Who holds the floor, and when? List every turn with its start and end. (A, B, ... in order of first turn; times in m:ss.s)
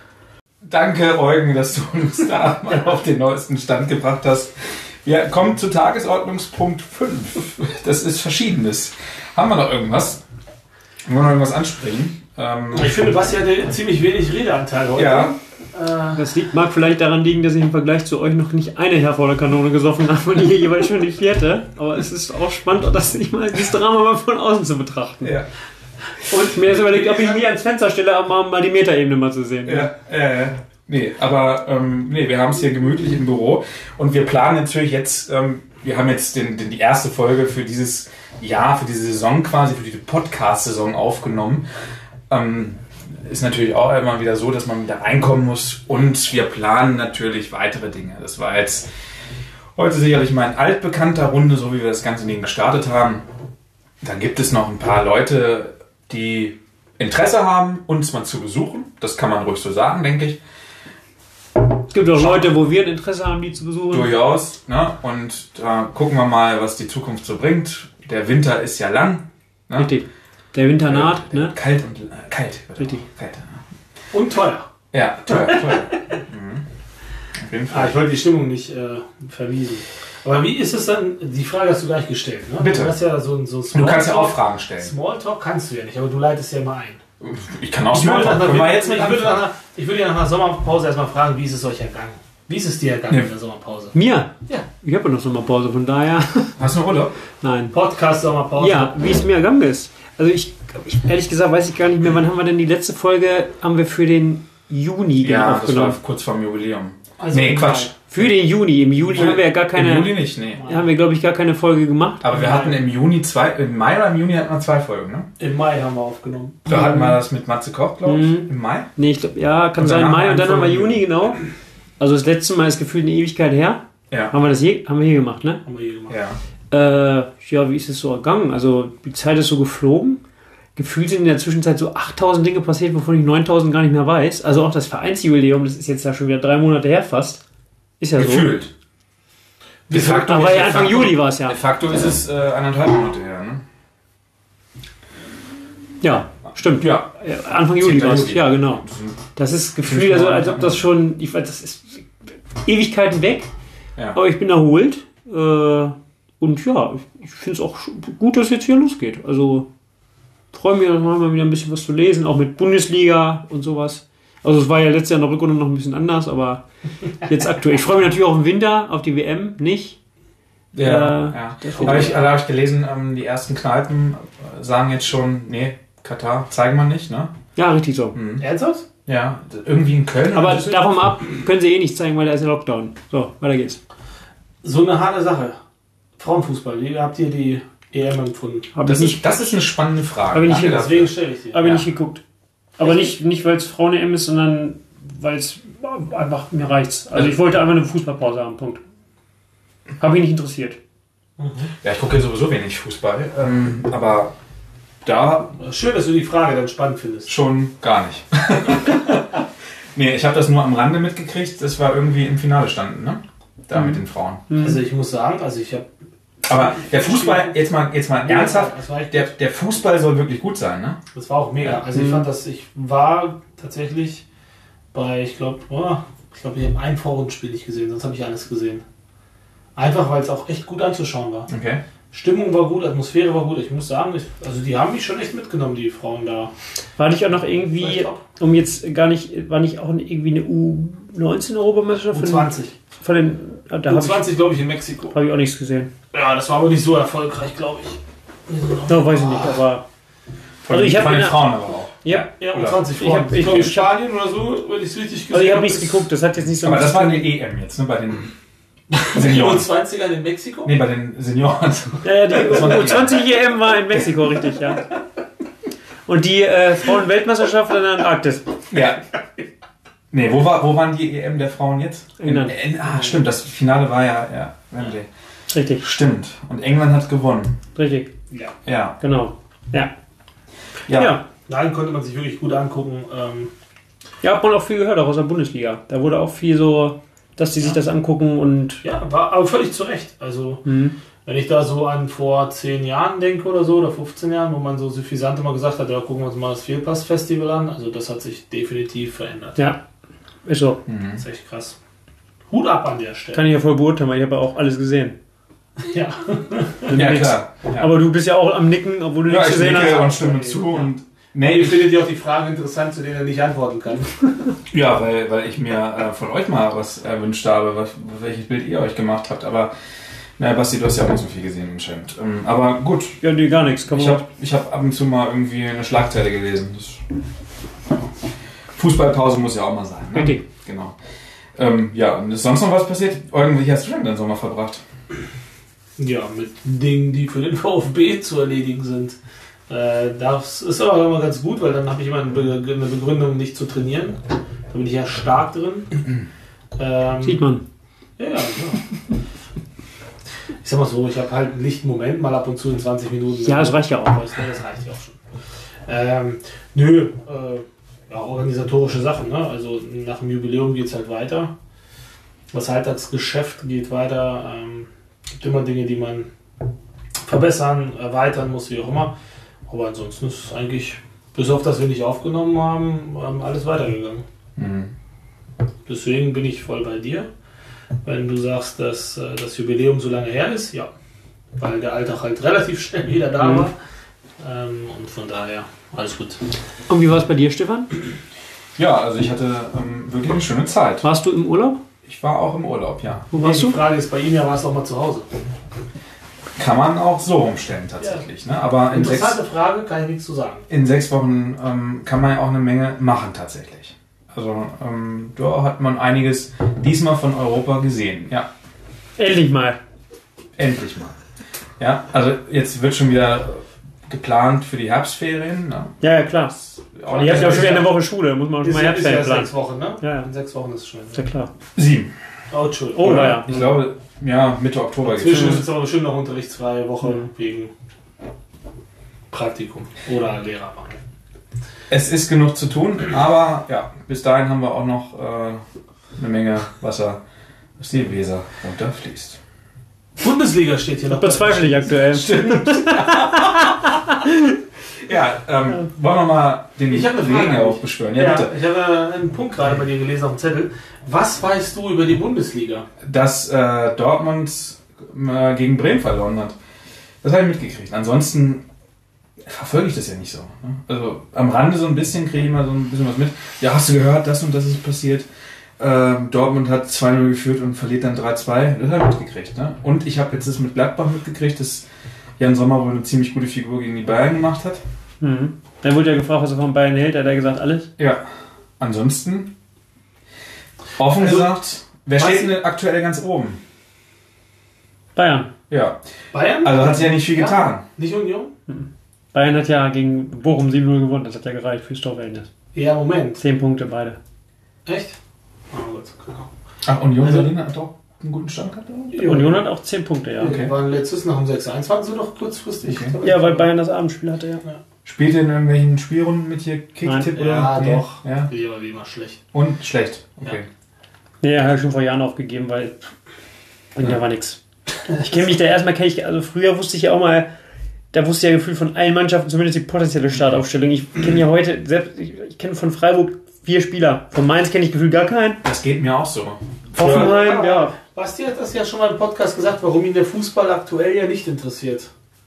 0:00.6-0:10.2 A
0:11.1-0:13.2 A
0:12.7-0:16.2 B
0:15.0-0:15.4 A
0:16.2-0:25.4 C
0:26.3-0:29.9 C
0:26.5-0:27.4 A
0:29.7-0:41.6 A
0:42.3-0:48.9 A
0:49.8-0:53.2 A
0:54.0-1:00.4 A
1:01.9-1:04.1 C
1:02.2-1:02.5 A
1:03.9-1:09.9 A
1:09.8-1:11.6 C
1:10.8-1:13.6 A
1:14.1-1:14.7 B
1:14.9-1:16.6 A
1:17.4-1:18.0 A
1:17.7-1:27.0 B
1:22.6-1:23.0 A
1:23.7-1:24.9 A
1:27.2-1:29.4 A
1:27.9-1:33.9 B
1:33.9-1:36.6 C
1:36.6-1:37.2 A
1:37.4-1:37.7 C
1:37.7-1:39.0 B
1:38.6-1:46.0 C
1:45.2-1:48.3 A
1:47.2-1:47.9 B
1:48.1-1:52.5 C
1:49.1-1:50.6 A
1:50.6-1:50.9 B
1:52.2-1:55.3 A
1:52.3-1:52.7 B
1:55.4-1:57.1 B
1:56.7-1:58.9 A
1:58.0-2:01.4 C
1:59.8-2:01.0 A
2:02.0-2:05.6 C
2:05.7-2:06.2 B
2:06.1-2:06.4 A
2:06.7-2:10.2 C
2:10.8-2:17.4 C
2:18.0-2:18.5 C
2:18.2-2:18.7 A
2:19.9-2:21.0 B
2:19.9-2:23.6 A
2:20.0-2:21.6 C
2:26.0-2:32.1 C
2:26.8-2:27.1 A
2:27.7-2:29.2 A
2:29.8-2:30.8 A
2:32.6-2:33.5 C
2:34.1-2:39.7 C
2:40.5-2:46.6 C
2:47.2-2:50.0 C
2:50.7-2:57.3 A
2:50.8-2:52.2 C
2:51.7-2:52.1 B
2:57.6-2:58.2 C
2:58.1-2:58.4 A
2:58.4-2:58.8 B
2:59.1-3:00.9 A
3:00.3-3:03.8 C
3:04.6-3:05.6 B
3:06.2-3:08.7 B
3:08.8-3:09.2 C
3:08.8-3:11.8 A
3:10.3-3:10.9 C
3:10.5-3:11.6 B
3:11.5-3:12.2 C
3:12.8-3:18.8 C
3:12.8-3:13.1 B
3:20.0-3:20.8 C
3:21.4-3:21.7 B
3:21.8-3:24.3 A
3:25.0-3:25.5 A
3:25.6-3:27.3 B
3:27.3-3:29.4 A
3:30.0-3:34.5 A
3:34.5-3:34.8 C
3:34.6-3:35.9 B
3:36.5-3:41.0 A
3:36.5-3:37.6 B
3:38.2-3:39.3 B
3:41.1-3:44.2 B
3:41.9-3:42.3 C
3:44.9-3:48.8 B
3:49.8-3:51.5 B
3:51.5-3:51.8 A
3:52.1-3:56.5 B
3:57.0-4:04.3 C
3:57.8-3:58.2 B
4:02.1-4:02.7 B
4:03.9-4:05.2 B
4:05.1-4:05.9 C
4:06.1-4:09.6 B
4:08.9-4:09.8 C
4:10.6-4:12.8 A
4:10.7-4:12.3 C
4:12.1-4:16.1 B
4:12.9-4:13.9 C
4:15.3-4:17.3 C
4:16.6-4:18.3 A
4:19.0-4:20.8 B
4:19.1-4:19.7 A
4:20.6-4:23.2 A
4:22.0-4:24.9 C
4:26.1-4:28.6 C
4:28.7-4:29.0 A
4:30.1-4:35.1 A
4:32.2-4:32.6 C
4:35.5-4:35.8 C
4:35.8-4:37.6 A
4:37.8-4:38.1 C
4:38.6-4:39.0 A
4:39.0-4:39.9 C
4:40.9-4:41.2 A
4:40.9-4:41.2 C
4:41.5-4:43.5 B
4:44.2-4:48.8 C
4:48.8-4:50.7 B
4:50.7-4:50.9 C
4:51.2-4:59.7 B
5:00.4-5:00.8 C
5:00.9-5:01.2 A
5:01.2-5:01.8 B
5:02.5-5:03.4 B
5:03.3-5:05.2 C
5:05.8-5:06.9 B
5:06.9-5:10.4 C
5:06.9-5:07.9 A
5:09.3-5:12.0 A
5:09.6-5:10.8 B
5:11.4-5:14.2 B
5:14.7-5:19.7 A
5:20.4-5:23.2 A
5:23.2-5:24.2 C
5:23.9-5:27.0 A
5:28.8-5:31.0 A
5:30.1-5:30.4 C
5:31.6-5:34.8 A
5:36.0-5:39.2 B
5:39.7-5:44.2 B
5:44.7-5:45.9 B
5:46.8-5:47.4 B
5:47.2-5:47.6 C
5:48.2-5:48.8 B
5:50.6-5:55.2 B
5:53.4-5:54.2 C
5:55.9-6:01.5 B
6:02.5-6:06.3 B
6:07.2-6:09.1 B
6:09.7-6:14.2 B
6:14.6-6:14.9 A
6:15.9-6:17.3 B
6:18.0-6:20.9 B
6:21.6-6:23.8 B
6:23.4-6:23.7 C
6:24.4-6:26.4 B
6:26.9-6:27.9 C
6:28.8-6:31.0 A
6:31.0-6:31.8 C
6:32.0-6:33.3 A
6:33.3-6:33.8 C
6:33.3-6:35.3 B
6:36.6-6:39.4 A
6:38.9-6:40.7 B
6:40.7-6:48.5 A
6:49.2-6:49.8 C
6:50.6-6:51.2 A
6:51.8-6:56.0 A
6:56.0-7:00.3 C
6:56.8-6:57.8 A
6:57.2-6:58.0 B
6:58.6-7:01.3 B
7:01.1-7:01.5 C
7:01.8-7:02.1 A
7:02.5-7:03.4 B
7:02.9-7:03.8 C
7:03.0-7:05.7 A
7:05.0-7:07.7 B
7:05.3-7:05.6 C
7:09.3-7:11.0 B
7:11.9-7:15.6 A
7:16.2-7:17.2 A
7:17.8-7:19.4 A
7:20.2-7:21.9 B
7:21.1-7:24.6 C
7:22.1-7:23.9 A
7:25.0-7:28.5 A
7:26.9-7:32.9 B
7:33.0-7:36.6 A
7:37.2-7:38.6 A
7:39.4-7:45.3 A
7:45.8-7:51.9 A
7:52.4-7:54.8 A
7:55.2-7:57.9 C
7:58.0-7:58.2 A
7:58.8-7:59.5 A
8:01.0-8:03.6 A
8:01.2-8:01.6 B
8:02.2-8:02.5 B
8:05.2-8:05.5 C
8:05.7-8:06.0 A
8:06.3-8:08.5 B
8:06.6-8:07.8 A
8:08.7-8:12.5 C
8:12.7-8:13.4 B
8:13.4-8:14.2 C
8:14.9-8:15.2 B
8:15.7-8:16.5 B
8:16.8-8:19.2 A
8:17.2-8:17.5 B
8:19.1-8:19.6 B
8:19.2-8:20.5 C
8:20.4-8:23.7 B
8:20.4-8:20.7 A
8:22.8-8:23.2 A
8:23.2-8:24.6 C
8:25.0-8:28.5 A
8:27.0-8:27.3 C
8:27.3-8:29.4 B
8:29.5-8:30.7 A
8:31.4-8:33.1 C
8:34.0-8:37.5 C
8:38.1-8:45.6 C
8:45.6-8:47.3 A
8:46.9-8:48.0 C
8:47.0-8:52.1 B